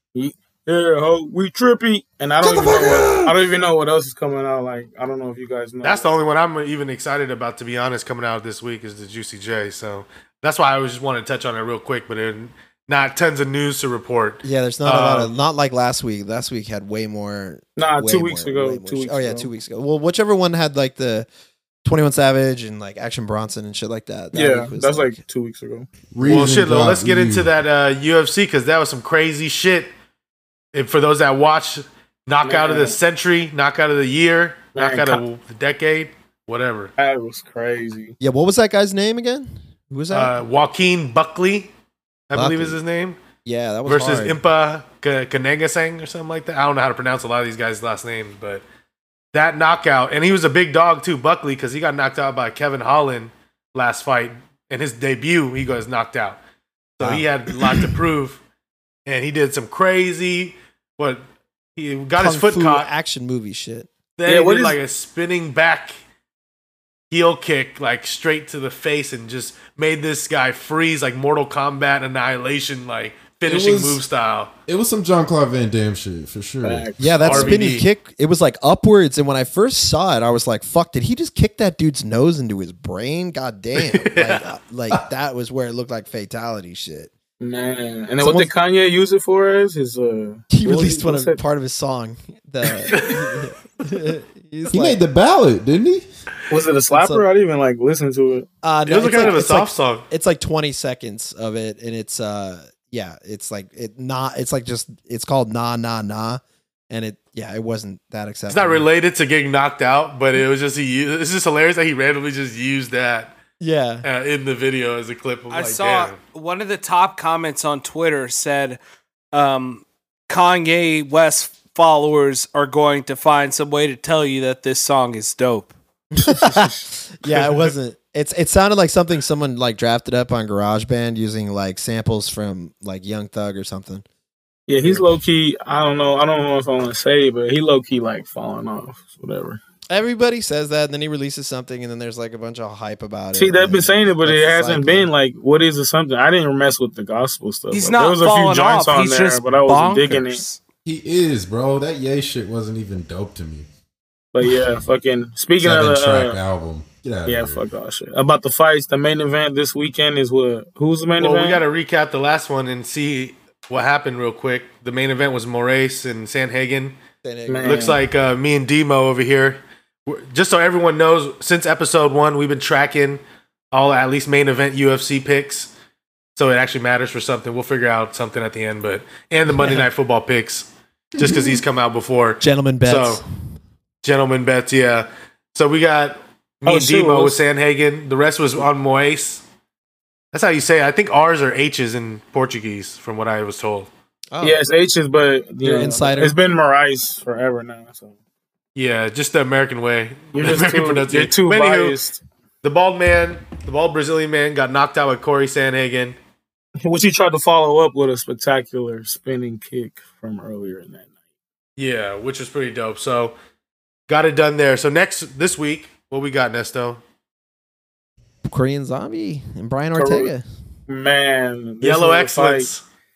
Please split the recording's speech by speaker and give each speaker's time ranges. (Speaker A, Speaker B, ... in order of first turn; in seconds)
Speaker A: 0.1-6.1, 17.8-19.5, 24.3-25.9, 32.4-33.0, 34.7-35.2, 37.0-38.1, 64.2-64.8, 76.6-77.6, 87.4-91.4, 96.5-98.5, 99.1-99.3, 126.4-126.7, 134.7-139.6, 143.3-150.4, 154.3-156.4, 157.2-161.6, 167.5-168.0, 186.7-187.4, 194.4-198.1, 200.3-202.2, 206.8-211.1, 219.9-220.3, 220.9-222.7
Speaker B: 2.4-3.3, 26.1-27.5, 73.5-74.0, 74.7-76.9, 94.7-96.0, 150.8-153.7, 155.6-157.6, 181.2-181.6
Speaker C: 5.8-15.3, 26.2-29.9, 30.7-36.9, 40.1-41.7, 42.3-43.2, 43.9-48.6, 49.3-56.4, 57.0-58.4, 59.0-61.2, 61.8-62.9, 64.2-65.9, 67.1-74.5, 77.2-77.8, 83.8-84.4, 92.9-93.5, 98.9-100.0, 108.5-113.3, 114.0-116.2, 161.2-167.0, 167.6-175.7, 176.3-183.2, 184.0-189.4, 190.3-193.9, 198.7-202.0, 202.6-206.2, 211.8-213.3, 214.1-217.0, 221.8-222.8
Speaker D: 14.4-21.3, 21.8-25.2, 38.2-40.3, 42.3-42.8, 43.4-44.4, 57.0-57.2, 62.2-63.9, 77.0-87.1, 88.2-88.5, 90.5-95.0, 96.9-97.2, 98.6-108.9, 113.6-114.0, 126.1-134.0, 139.9-145.1, 167.2-167.8, 182.4-183.2, 194.3-194.6, 195.6-196.3, 218.4-220.4
Speaker E: 115.5-118.8, 119.3-125.7, 147.7-150.6